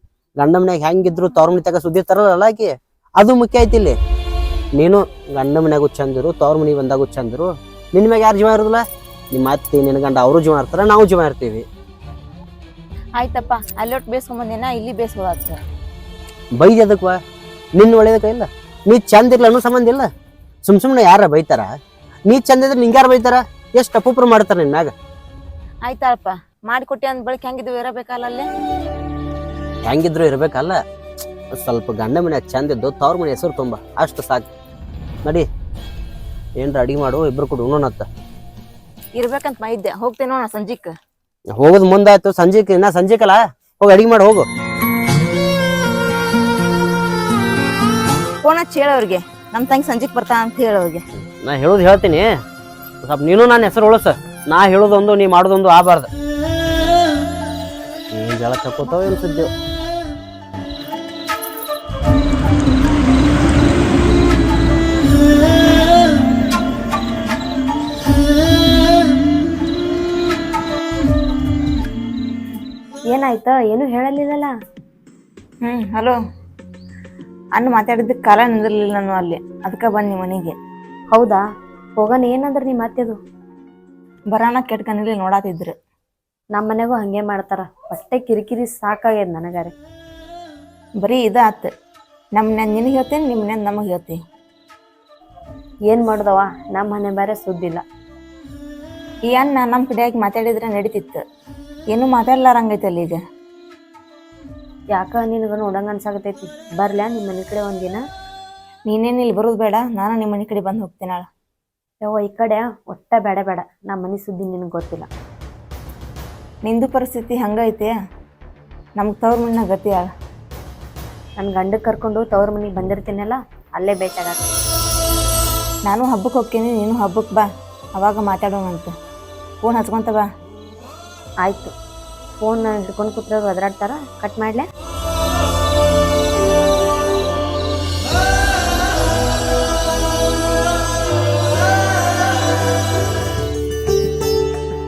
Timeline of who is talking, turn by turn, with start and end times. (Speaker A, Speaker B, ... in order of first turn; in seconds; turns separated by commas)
Speaker A: 0.4-4.0, Speaker A: 4.8-11.7, Speaker B: 13.2-15.6, Speaker A: 16.6-17.2, Speaker A: 17.8-20.1, Speaker A: 20.6-21.7, Speaker A: 22.3-24.9, Speaker B: 25.8-28.5, Speaker A: 29.8-30.8, Speaker A: 31.5-34.5, Speaker A: 36.6-38.0, Speaker B: 39.2-40.9, Speaker A: 41.5-44.5, Speaker B: 48.4-51.0, Speaker A: 51.4-52.3, Speaker A: 53.0-56.1, Speaker A: 58.1-59.5, Speaker C: 73.1-74.5, Speaker B: 75.6-76.2, Speaker B: 77.5-80.5, Speaker C: 81.1-81.4, Speaker C: 82.0-83.2, Speaker B: 84.3-85.7, Speaker C: 86.5-89.7, Speaker B: 91.0-91.7, Speaker B: 92.3-94.2, Speaker C: 95.9-97.8, Speaker B: 99.3-101.2, Speaker B: 101.9-103.2, Speaker C: 104.9-108.0, Speaker B: 108.9-111.2, Speaker C: 112.0-115.1, Speaker B: 116.6-117.9, Speaker B: 119.0-120.1, Speaker C: 121.4-124.4, Speaker B: 125.9-128.9, Speaker B: 129.6-130.3, Speaker C: 131.4-131.7, Speaker C: 132.4-134.7